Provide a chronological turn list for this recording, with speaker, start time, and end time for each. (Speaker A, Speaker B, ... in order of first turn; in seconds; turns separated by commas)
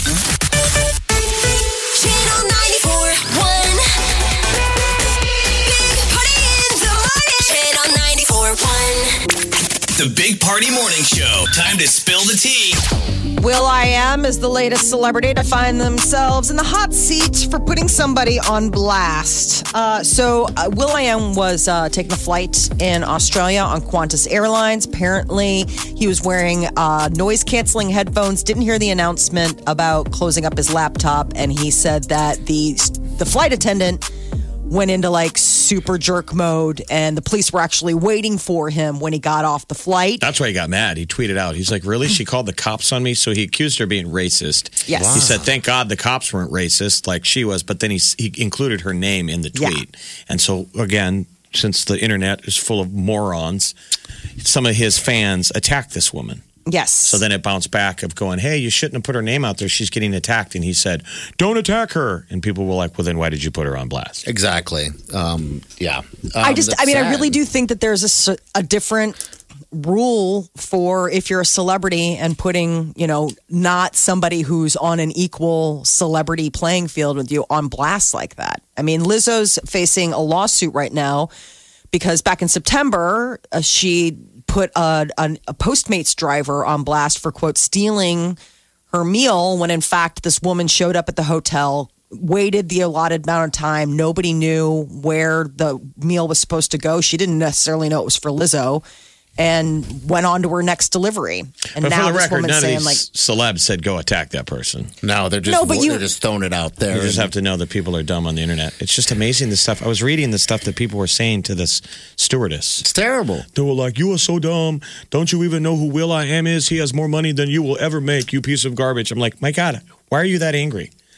Speaker A: 1.8-4.2, Speaker A: 5.4-9.2, Speaker B: 9.9-12.8, Speaker C: 13.4-34.0, Speaker C: 34.7-40.2, Speaker D: 40.2-53.7, Speaker C: 44.9-45.2, Speaker E: 44.9-45.5, Speaker C: 49.5-49.8, Speaker D: 54.4-56.4, Speaker C: 56.7-57.2, Speaker D: 57.0-64.2, Speaker E: 64.2-67.4, Speaker C: 66.4-69.2, Speaker C: 69.7-81.3, Speaker C: 81.9-88.4, Speaker C: 88.9-98.8, Speaker C: 99.4-103.0, Speaker D: 101.8-104.9, Speaker E: 105.0-107.3, Speaker C: 105.5-106.0, Speaker D: 106.9-112.9, Speaker E: 112.8-113.5, Speaker D: 113.5-120.9